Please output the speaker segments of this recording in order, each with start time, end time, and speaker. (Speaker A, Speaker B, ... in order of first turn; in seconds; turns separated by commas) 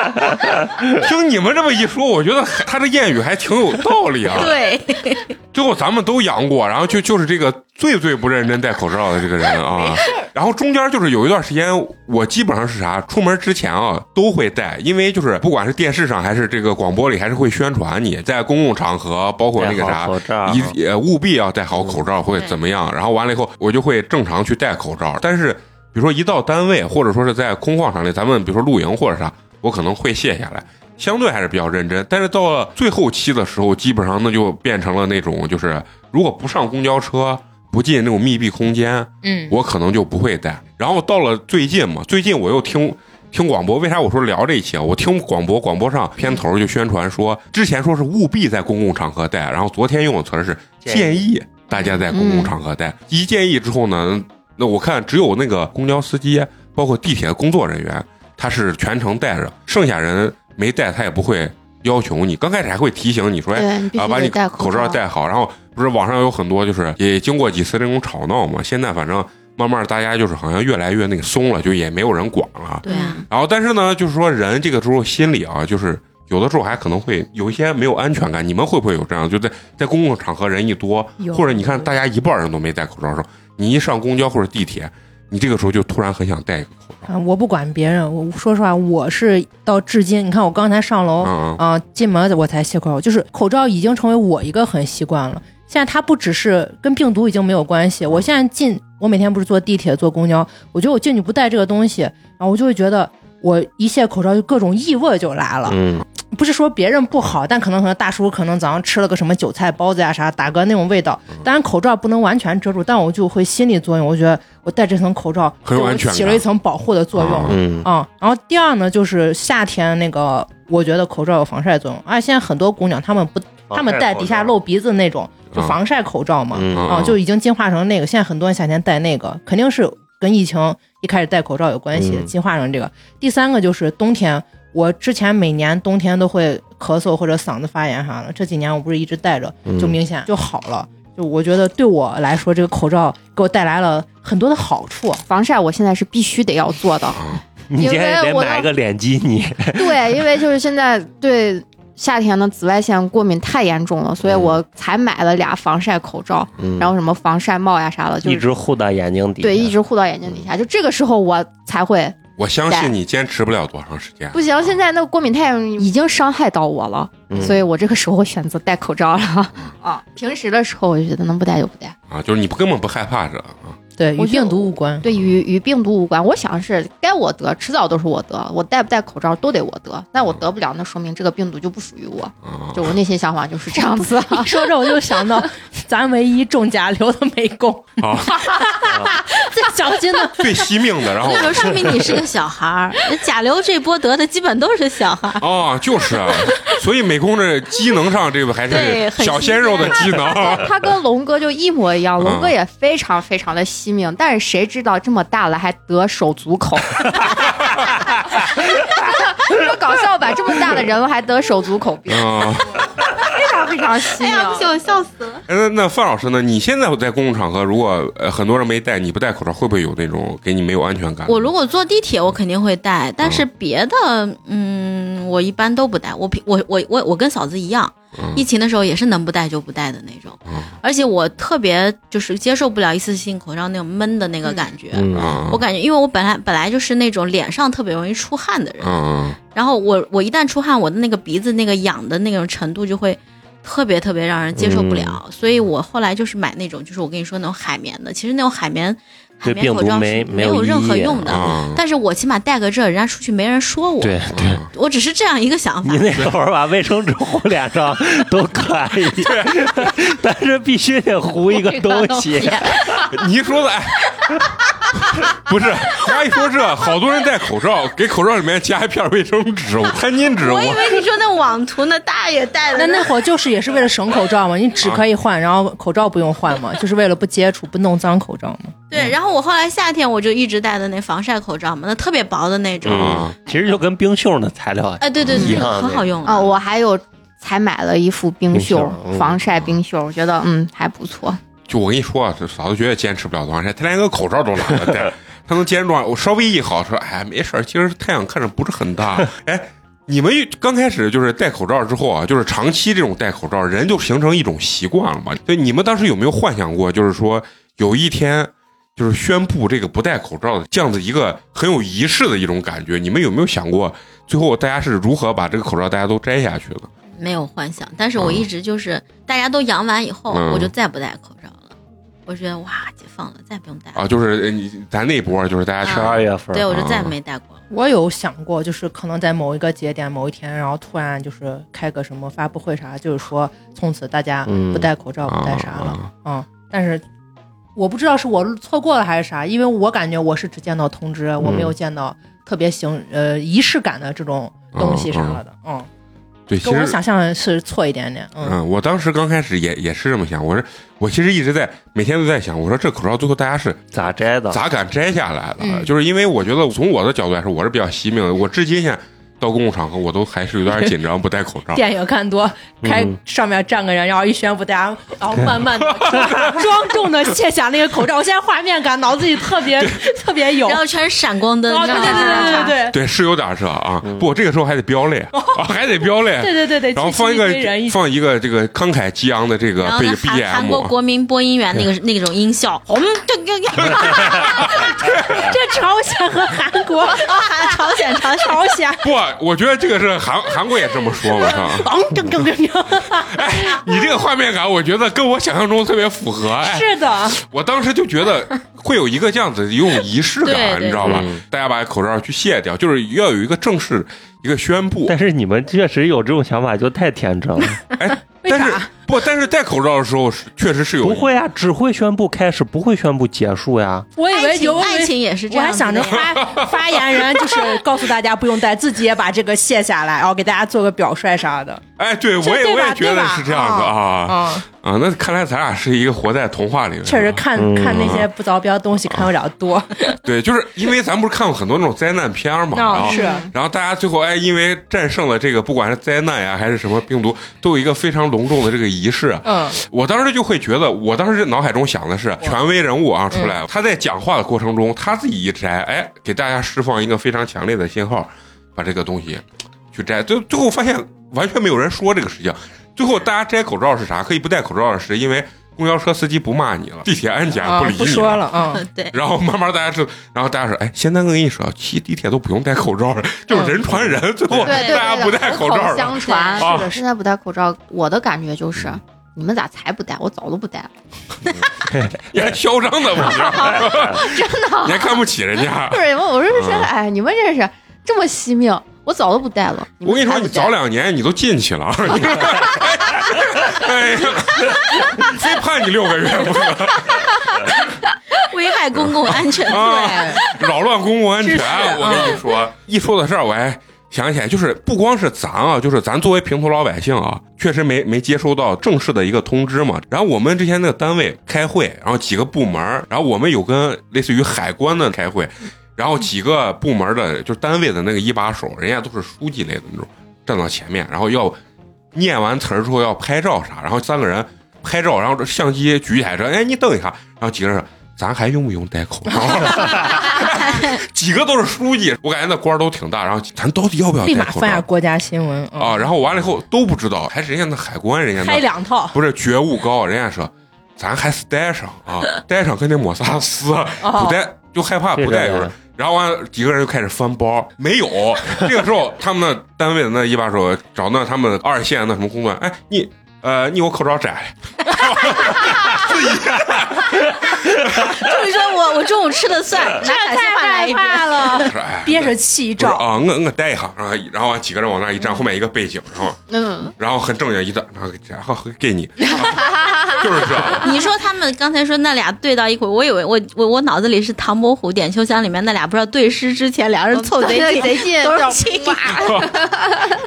Speaker A: 0.9-4.6, Speaker B: 4.3-5.3, Speaker A: 5.5-87.1, Speaker C: 19.6-20.8, Speaker B: 22.3-22.6, Speaker D: 39.2-39.6, Speaker C: 50.8-51.2, Speaker E: 52.1-52.5, Speaker E: 63.5-65.0, Speaker B: 72.8-73.2, Speaker E: 72.8-73.3, Speaker D: 81.2-81.9, Speaker D: 87.1-145.2, Speaker A: 91.2-91.6, Speaker C: 105.7-106.0, Speaker A: 115.6-116.4, Speaker A: 117.2-117.6, Speaker C: 117.5-117.9, Speaker C: 123.7-124.5, Speaker C: 126.5-127.0, Speaker A: 126.7-127.2, Speaker C: 131.9-132.3, Speaker C: 139.7-140.0, Speaker E: 145.3-148.7, Speaker A: 147.1-147.4, Speaker C: 147.7-150.2, Speaker E: 149.8-158.5, Speaker C: 154.3-154.5, Speaker C: 156.6-156.9, Speaker C: 158.2-159.7, Speaker E: 159.4-162.2, Speaker A: 162.4-164.5, Speaker E: 164.3-171.9, Speaker C: 167.3-167.6, Speaker A: 172.1-173.8, Speaker D: 174.0-175.1, Speaker E: 174.2-184.7, Speaker A: 182.4-183.0, Speaker D: 183.9-190.6, Speaker A: 188.0-188.6, Speaker A: 190.4-191.9, Speaker B: 191.2-195.4, Speaker A: 195.4-200.7, Speaker B: 198.7-200.3, Speaker E: 200.3-212.5, Speaker A: 202.2-202.5, Speaker A: 212.1-212.8, Speaker E: 213.2-214.8, Speaker B: 214.2-215.4, Speaker A: 215.5-221.5, Speaker B: 221.3-239.0, Speaker A: 228.2-228.4, Speaker A: 230.5-230.7, Speaker C: 234.9-235.4, Speaker A: 235.2-235.6, Speaker A: 238.8-239.4, Speaker B: 239.5-256.3, Speaker C: 244.6-245.2, Speaker C: 249.4-251.6, Speaker A: 251.3-251.8, Speaker C: 254.0-254.6, Speaker A: 254.3-254.7, Speaker C: 255.8-263.0, Speaker A: 259.2-259.7, Speaker B: 261.5-263.1, Speaker A: 263.1-264.2, Speaker A: 265.1-271.0, Speaker B: 270.4-273.2, Speaker D: 272.8-279.1, Speaker B: 278.9-283.3, Speaker C: 282.8-286.1, Speaker A: 282.9-283.3, Speaker B: 285.0-286.6, Speaker A: 285.2-285.5, Speaker E: 285.3-285.7, Speaker E: 286.2-291.4, Speaker C: 288.5-289.4, Speaker A: 291.7-316.9, Speaker B: 317.2-321.7, Speaker A: 318.2-318.5, Speaker A: 320.3-320.7, Speaker B: 322.3-324.1, Speaker A: 323.9-327.1, Speaker B: 325.8-327.6, Speaker C: 325.9-326.7, Speaker D: 327.7-337.0, Speaker C: 334.5-334.9, Speaker A: 335.3-336.1, Speaker D: 337.8-345.9, Speaker A: 344.7-345.4, Speaker A: 346.5-347.0, Speaker D: 346.6-348.6, Speaker A: 348.4-354.0, Speaker C: 353.9-354.6, Speaker A: 354.5-361.8, Speaker D: 355.6-355.9, Speaker D: 361.7-370.8, Speaker C: 362.8-363.2, Speaker A: 366.1-366.5, Speaker A: 369.8-370.0, Speaker B: 370.6-372.8, Speaker D: 371.7-373.0, Speaker E: 371.8-372.7, Speaker A: 372.9-380.9, Speaker D: 375.3-375.6, Speaker D: 376.3-378.0, Speaker B: 379.8-384.7, Speaker A: 383.8-385.5, Speaker D: 384.6-389.0, Speaker B: 387.1-388.8, Speaker A: 389.0-391.9, Speaker D: 391.2-394.0, Speaker A: 393.2-405.1, Speaker D: 396.6-397.4, Speaker B: 400.4-401.2, Speaker C: 401.0-401.4, Speaker C: 405.1-407.8, Speaker A: 407.9-411.3, Speaker D: 408.4-408.9, Speaker C: 411.0-414.1, Speaker D: 414.2-421.8, Speaker B: 414.3-416.4, Speaker A: 416.2-416.7, Speaker A: 422.0-428.3, Speaker D: 422.4-424.6, Speaker D: 427.1-430.2, Speaker C: 427.6-428.1, Speaker A: 430.2-458.6, Speaker D: 432.7-433.5, Speaker E: 433.1-433.5, Speaker D: 439.4-439.8, Speaker D: 443.3-443.6, Speaker D: 457.6-458.8, Speaker B: 458.7-459.2, Speaker A: 459.1-467.0, Speaker E: 464.6-470.9, Speaker B: 464.7-465.2, Speaker B: 466.2-466.7, Speaker C: 471.9-472.3, Speaker A: 472.2-476.9, Speaker E: 473.3-480.7, Speaker A: 480.0-487.7, Speaker B: 488.3-490.7, Speaker A: 488.9-511.6, Speaker B: 491.6-492.2, Speaker D: 492.0-492.4, Speaker A: 512.1-524.9, Speaker B: 520.6-520.9, Speaker D: 524.2-526.1, Speaker A: 525.8-548.1, Speaker D: 528.4-529.2, Speaker D: 534.0-534.4, Speaker C: 535.2-535.7, Speaker B: 548.0-551.7, Speaker D: 550.0-553.0, Speaker A: 551.6-556.4, Speaker E: 556.5-556.9, Speaker A: 557.0-560.9, Speaker E: 559.3-560.8, Speaker B: 560.8-569.5, Speaker E: 567.1-570.1, Speaker A: 569.2-569.5